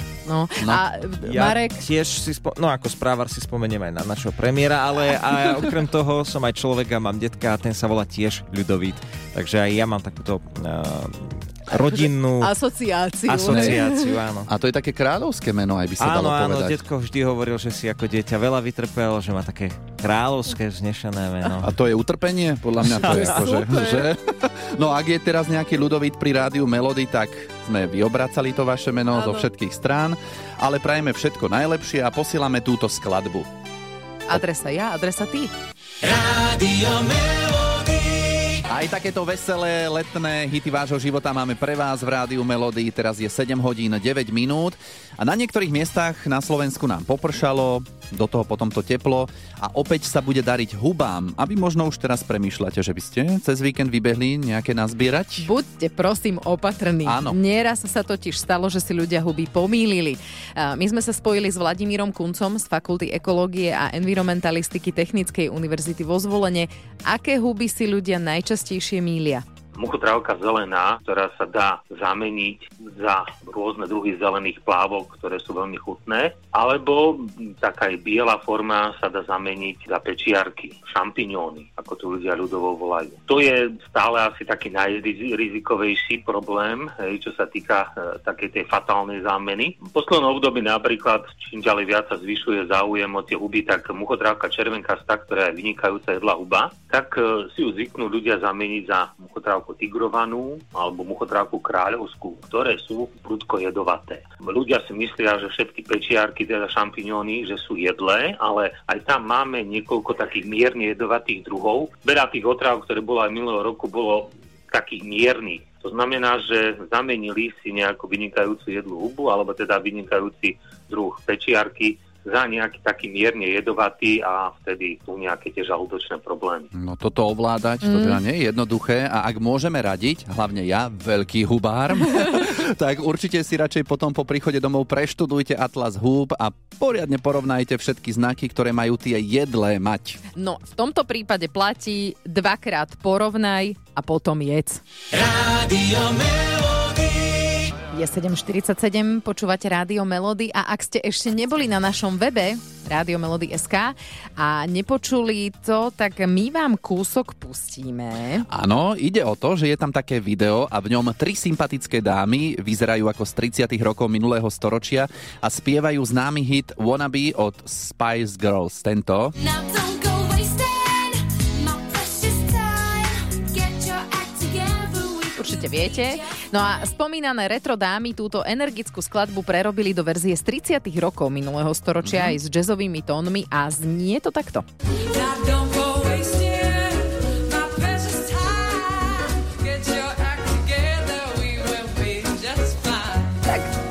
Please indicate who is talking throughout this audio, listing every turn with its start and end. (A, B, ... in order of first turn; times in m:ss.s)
0:00.2-0:01.8 A
0:01.2-0:12.5 B
0:12.4-0:14.1 A
0:13.3-0:14.5 B
0:13.4-0:13.8 C
0:14.5-0:16.8 C
0:16.0-0:21.7 B
0:21.6-0:33.5 C
0:23.0-0:23.3 B
0:23.3-0:23.9 A
0:29.1-0:29.4 A
0:34.3-0:35.5 A
0:38.7-0:55.5 C
0:55.4-1:09.4 A
0:57.0-0:57.4 C
1:09.8-2:06.7 D
2:06.7-2:20.2 C
2:07.8-2:08.2 A
2:20.4-2:24.8 A
2:27.9-2:38.4 A
2:38.5-2:49.3 C
2:49.5-2:55.4 E
2:55.3-3:04.6 A
3:02.0-3:02.4 C
3:05.1-3:10.9 E
3:11.4-3:13.2 E